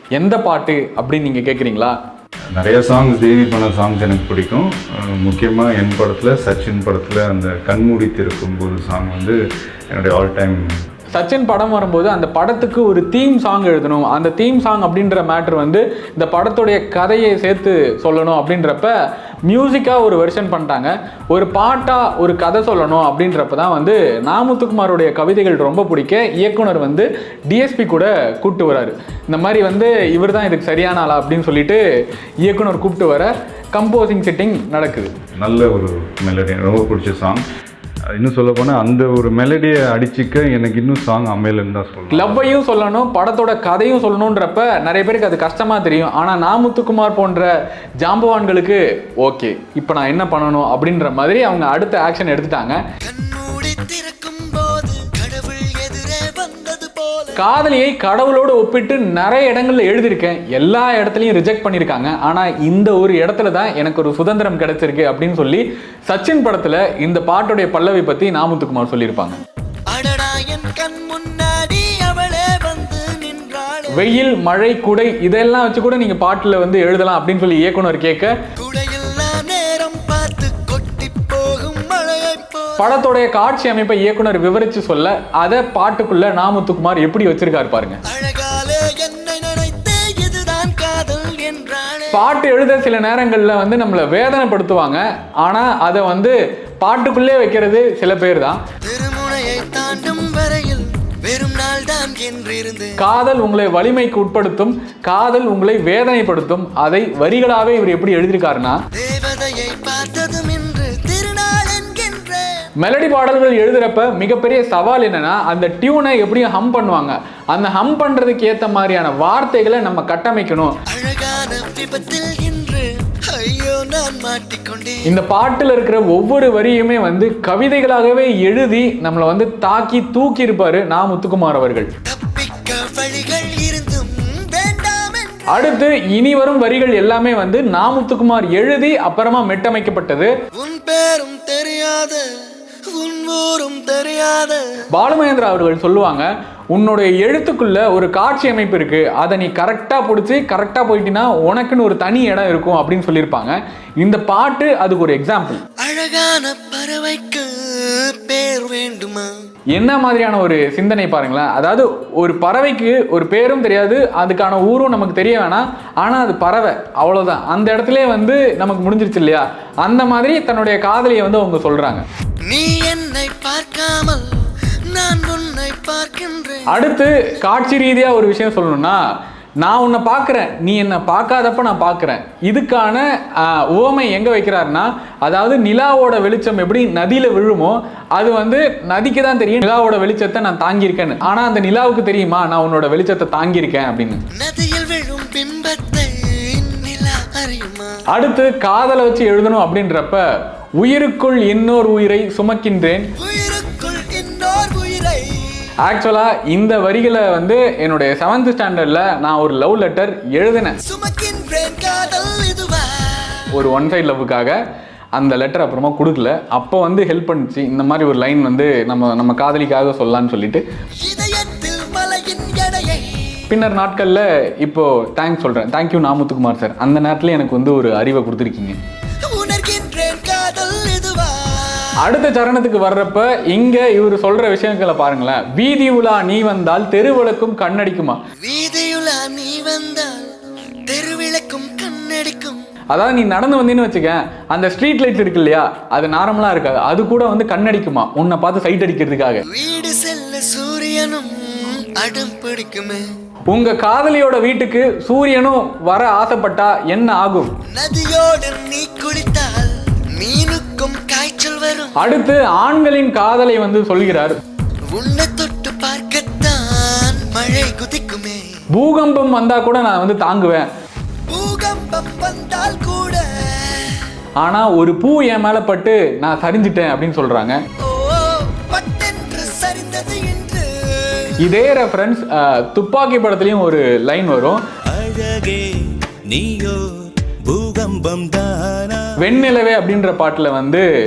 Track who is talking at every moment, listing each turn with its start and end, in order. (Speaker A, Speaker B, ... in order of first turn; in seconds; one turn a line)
Speaker A: 0.1-1.9
Speaker B: 2.5-9.4
Speaker B: 9.9-10.7
Speaker A: 11.1-18.9
Speaker A: 19.5-31.8
Speaker A: 32.4-35.1
Speaker B: 35.3-37.4
Speaker B: 38.0-42.5
Speaker A: 42.1-47.5
Speaker A: 48.0-52.8
Speaker C: 53.0-57.4
Speaker A: 57.4-69.4
Speaker C: 69.9-74.1
Speaker A: 73.9-78.4
Speaker C: 78.6-83.0
Speaker A: 82.8-88.0
Speaker C: 88.0-92.2
Speaker A: 92.1-98.6
Speaker C: 98.8-103.0
Speaker A: 103.0-108.8
Speaker C: 108.9-112.7
Speaker A: 112.8-120.8
Speaker C: 120.9-125.1
Speaker A: 125.0-131.9
Speaker C: 132.0-135.8
Speaker A: 135.5-140.3
Speaker C: 140.5-142.2
Speaker C: 142.9-144.6
Speaker A: 144.9-155.6
Speaker C: 155.8-159.3
Speaker A: 159.7-172.0
Speaker C: 172.4-176.8
Speaker A: 176.7-179.0
Speaker A: 179.6-194.2
Speaker C: 194.3-198.0
Speaker A: 198.1-200.2
Speaker A: 200.8-203.1
Speaker C: 203.2-205.6
Speaker A: 205.8-210.8
Speaker C: 210.8-213.4
Speaker A: 213.5-214.6
Speaker A: 215.1-220.6
Speaker C: 221.0-223.3
Speaker A: 223.5-228.8
Speaker C: 229.3-232.1
Speaker A: 232.0-238.2
Speaker C: 238.4-240.3
Speaker C: 240.9-242.6
Speaker A: 242.9-249.4
Speaker C: 249.4-253.1
Speaker A: 253.5-257.5
Speaker C: 257.7-262.0
Speaker A: 262.0-264.4
Speaker C: 264.9-268.4
Speaker A: 268.7-270.7
Speaker C: 271.3-274.1
Speaker A: 274.4-277.6
Speaker C: 277.8-281.4
Speaker A: 281.4-284.6
Speaker D: 284.9-289.1
Speaker A: 289.2-290.9